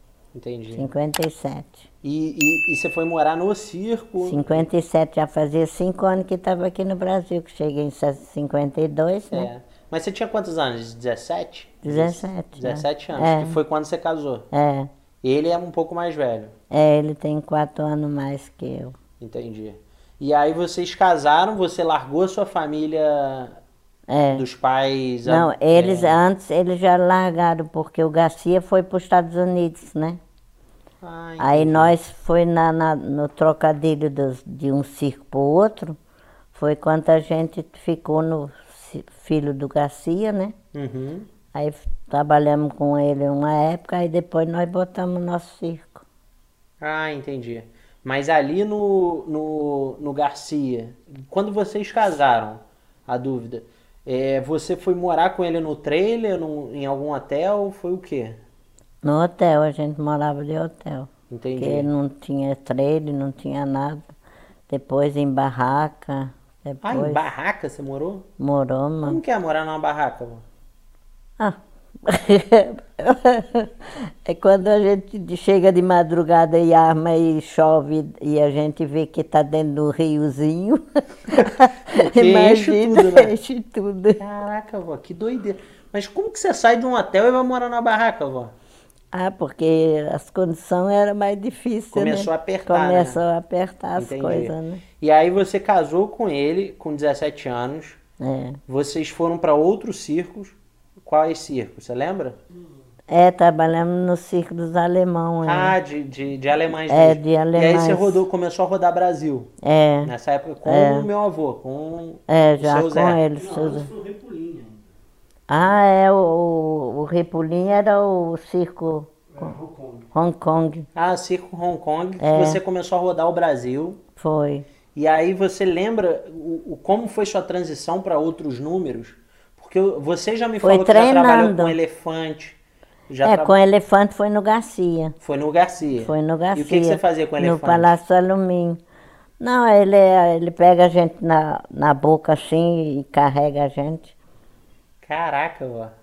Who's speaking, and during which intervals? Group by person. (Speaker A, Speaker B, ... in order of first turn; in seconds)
Speaker A: 0.3-0.9, 2.0-4.7, 9.3-14.5, 15.2-16.6, 19.2-23.6, 24.3-26.2, 31.0-31.9, 40.7-41.3, 46.8-58.4, 61.3-61.9, 66.8-68.3, 69.0-70.4, 81.4-83.3, 84.2-88.5, 91.9-93.2, 94.0-98.0, 98.7-102.4, 105.4-109.5, 110.0-113.2, 121.0-124.0, 125.0-132.6, 133.1-133.6, 135.2-137.9, 145.0-145.9
Speaker B: 0.7-1.9, 4.2-9.5, 11.8-13.6, 14.5-14.9, 16.7-18.9, 24.1-24.4, 25.3-30.2, 31.4-36.0, 36.5-40.5, 41.5-46.0, 59.0-64.1, 64.7-67.2, 68.4-69.2, 71.4-84.2, 89.1-94.8, 98.2-98.6, 103.1-105.8, 106.9-108.2, 109.6-110.1, 110.7-111.1, 112.3-113.9, 115.5-119.5, 120.1-120.9, 122.2-122.6, 124.2-124.7, 130.6-131.8, 133.2-135.2, 136.0-138.8, 139.4-144.1
Speaker C: 113.4-114.9, 119.3-120.1